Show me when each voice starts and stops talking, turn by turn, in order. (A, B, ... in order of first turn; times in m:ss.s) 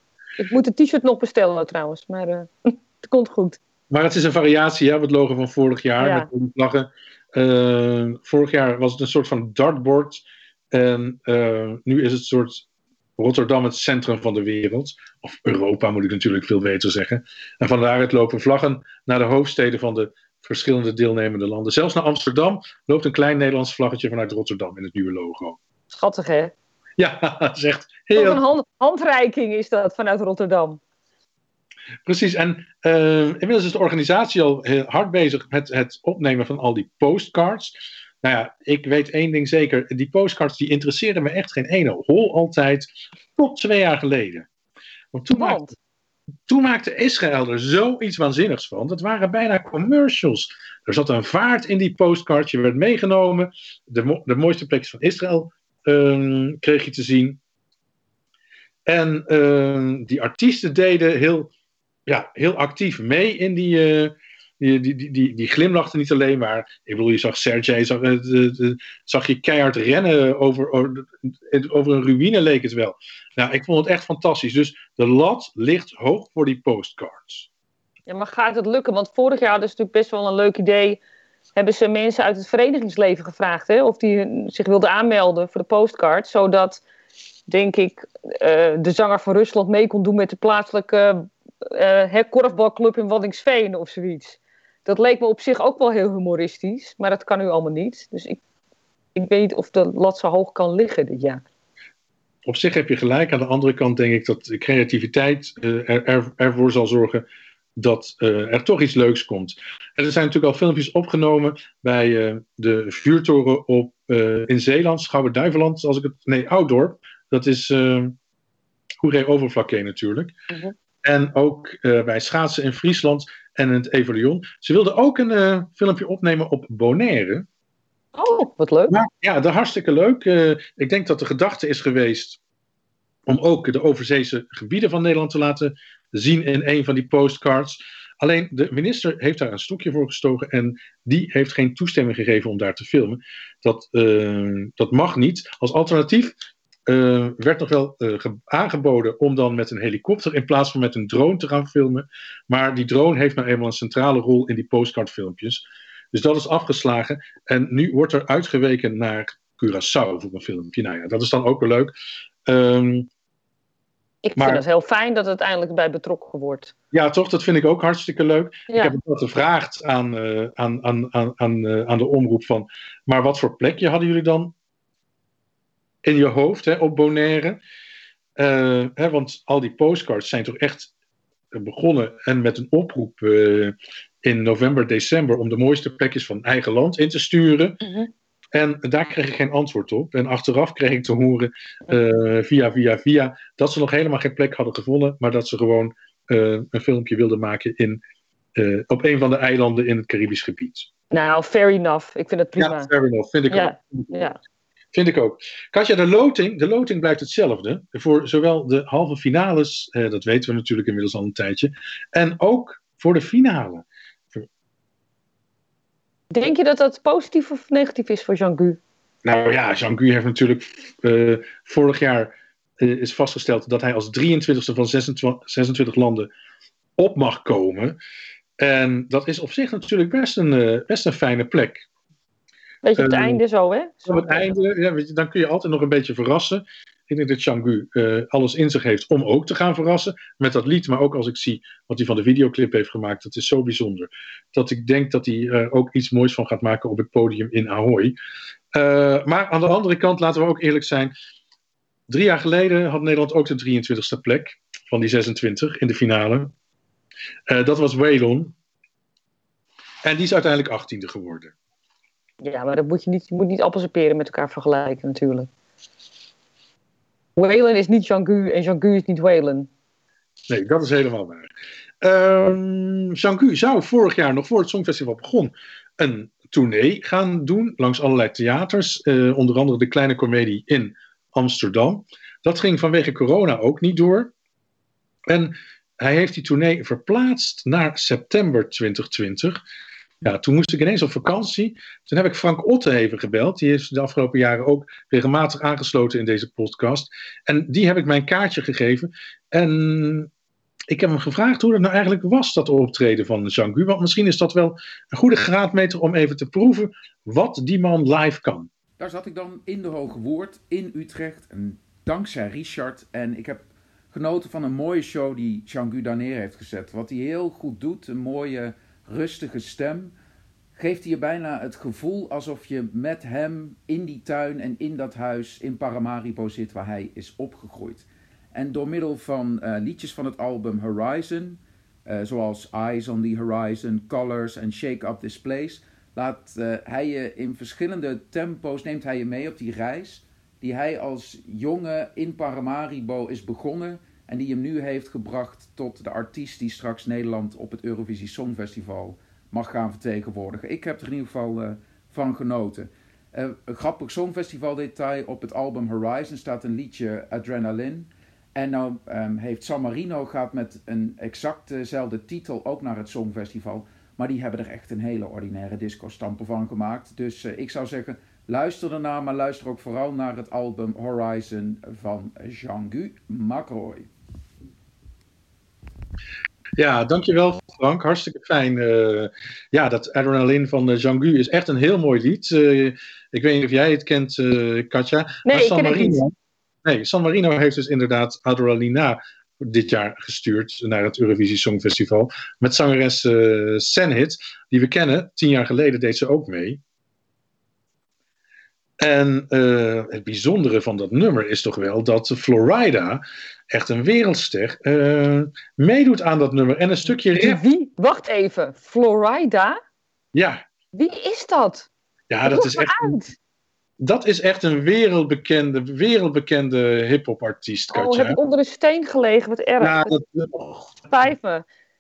0:00.4-0:03.6 A
0:03.9-0:12.6 B
0:06.0-0:06.3 A
0:13.2-0:25.6 B
0:25.9-0:26.5 A
0:27.0-0:28.4 B
0:28.2-0:30.8 A
0:32.1-0:44.5 B
0:45.1-0:45.8 B
0:45.4-0:45.7 A
0:46.5-0:57.4 B
0:58.9-1:01.5 B
1:02.1-1:17.5 B
1:18.1-1:21.0 A
1:21.6-1:26.8 A
1:27.5-1:38.4 A
1:39.2-1:41.4 A
1:42.5-1:47.2 B
1:47.8-1:58.2 B
1:59.0-2:00.3 B
2:01.0-2:07.5 B
2:08.2-2:08.9 A
2:08.9-2:12.4 B
2:13.3-2:26.3 B
2:26.9-2:41.9 B
2:42.5-2:43.1 B
2:44.2-2:46.7 A
2:44.4-2:44.6 B
2:46.9-2:54.5 B
2:48.7-2:48.9 A
2:56.0-2:57.6 B
2:58.4-3:00.9 B
3:01.5-3:07.8 B
3:07.8-3:08.1 A
3:08.5-3:18.0 B
3:18.6-3:20.9 B
3:21.1-3:22.9 A
3:22.6-3:24.1 B
3:23.5-3:24.4 A
3:24.9-3:34.5 B
3:36.3-3:38.8 A
3:39.2-3:46.3 B
3:47.0-3:48.0 B
3:48.6-3:51.9 B
3:52.8-3:54.5 A
3:53.0-3:53.4 B
3:54.1-4:08.2 B
4:08.7-4:11.1 B
4:12.1-4:16.5 B
4:17.5-4:18.5 B
4:20.0-4:21.5 B
4:22.4-4:25.5 A
4:27.4-4:29.7 A
4:30.5-4:31.5 B
4:32.0-4:44.3 B
4:45.3-4:49.6 B
4:50.2-5:00.3 B
5:00.9-5:08.7 B
5:09.0-5:20.2 C
5:20.8-6:14.1 C
6:16.8-6:26.3 B
6:25.5-6:26.2 A
6:26.8-6:36.8 B
6:39.0-6:47.6 B
6:47.4-6:49.8 A
6:50.3-6:50.6 B
6:51.0-6:51.9 A
6:52.3-6:53.2 B
6:52.5-6:53.4 A
6:54.0-6:58.4 B
6:57.9-7:00.1 A
6:59.8-7:01.0 B
7:01.1-7:01.6 A